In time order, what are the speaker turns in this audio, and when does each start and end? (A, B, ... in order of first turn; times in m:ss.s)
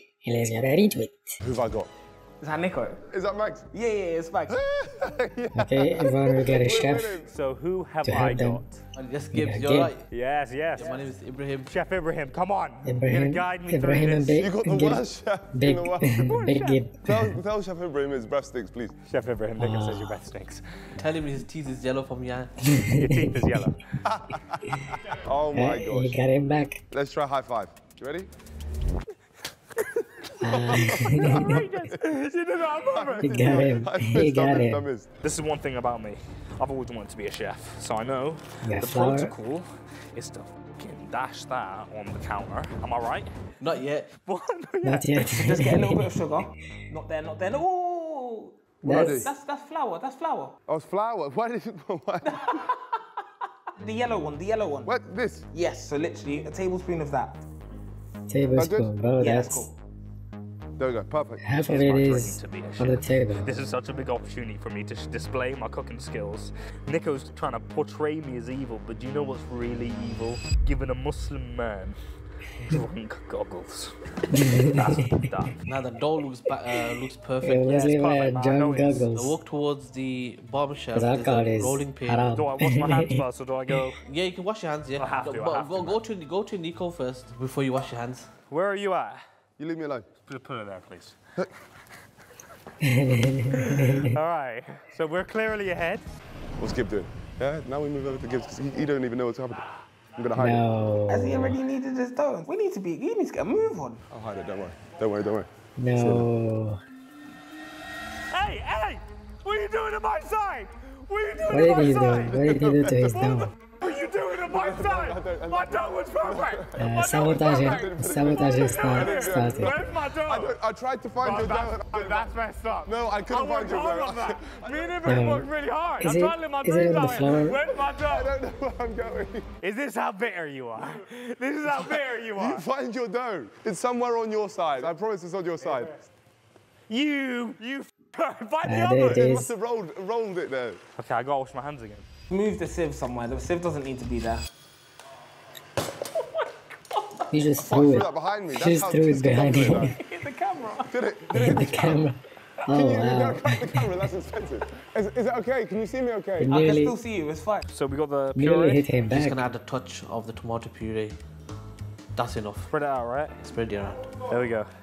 0:00.2-0:01.3 A
0:01.4-0:01.9 B
0:02.4-0:03.0 C
0:03.1-0:03.7 B
0:03.7-0:04.5 C
0:04.5-0:07.3 B
0:05.6-0:07.2 A
0:07.3-0:08.8 D
0:08.0-0:08.6 A
0:09.0-0:10.0 E
0:09.3-0:09.9 A
0:10.1-0:10.9 D
0:10.8-0:11.7 E
0:11.7-0:14.4 D
0:12.8-0:17.4 A
0:14.4-0:16.3 B
0:16.2-0:16.8 D
0:17.0-0:19.0 B
0:19.0-0:20.6 D
0:19.6-0:20.2 A
0:21.0-0:22.5 E
0:22.7-0:23.2 A
0:23.0-0:23.9 D
0:24.0-0:26.2 B
0:25.5-0:26.8 A
0:26.9-0:28.3 B
0:30.0-0:33.6 D
0:30.4-0:31.6 A
0:31.2-0:31.5 B
0:32.8-0:35.1 B
0:33.2-0:34.8 A
0:35.2-0:43.3 D
0:38.6-0:39.3 A
0:43.6-0:44.1 E
0:44.2-0:45.3 D
0:44.8-0:46.1 A
0:45.3-0:50.5 C
0:48.8-0:49.3 A
0:48.9-0:49.3 B
0:50.7-0:52.4 B
0:52.2-0:53.0 C
0:53.8-0:54.9 C
0:54.8-0:55.5 B
0:55.5-0:57.4 C
0:58.3-0:59.6 A
0:58.6-0:58.9 B
0:59.2-0:59.7 C
1:00.8-1:01.4 B
1:01.4-1:03.5 A
1:01.7-1:12.0 D
1:12.6-1:13.9 D
1:14.3-1:14.9 A
1:14.5-1:15.6 D
1:15.7-1:17.8 E
1:17.4-1:19.4 A
1:17.7-1:19.1 D
1:19.1-1:22.4 E
1:20.9-1:23.2 A
1:22.3-1:24.0 D
1:24.0-1:28.3 E
1:25.0-1:26.0 D
1:28.5-1:29.2 D
1:29.6-1:30.1 B
1:30.3-1:31.2 D
1:32.8-1:34.1 A
1:33.5-1:36.0 D
1:36.6-1:40.6 B
1:40.3-1:41.6 A
1:41.1-1:44.0 C
1:44.1-1:45.5 B
1:45.8-1:46.8 A
1:48.3-2:00.6 D
1:51.5-1:53.5 A
1:52.4-1:53.3 B
1:54.4-2:02.3 B
1:56.8-1:59.8 A
2:01.2-2:08.3 D
2:02.8-2:05.1 B
2:05.0-2:05.5 A
2:06.0-2:07.6 A
2:07.9-2:09.5 B
2:09.6-2:12.6 D
2:12.3-2:16.0 B
2:16.9-2:19.2 D
2:18.6-2:19.5 A
2:19.1-2:20.8 B
2:21.0-2:22.0 D
2:22.3-2:24.4 C
2:27.3-2:29.9 A
2:27.6-2:30.0 B
2:30.0-2:30.9 C
2:30.9-2:32.0 B
2:31.4-2:34.0 A
2:32.7-2:36.5 B
2:36.4-2:36.9 A
2:36.5-2:37.6 C
2:37.7-2:38.9 D
2:38.4-2:39.4 A
2:39.1-2:41.2 E
2:42.1-2:42.7 E
2:42.7-2:43.4 D
2:43.4-2:44.2 E
2:44.2-2:44.7 D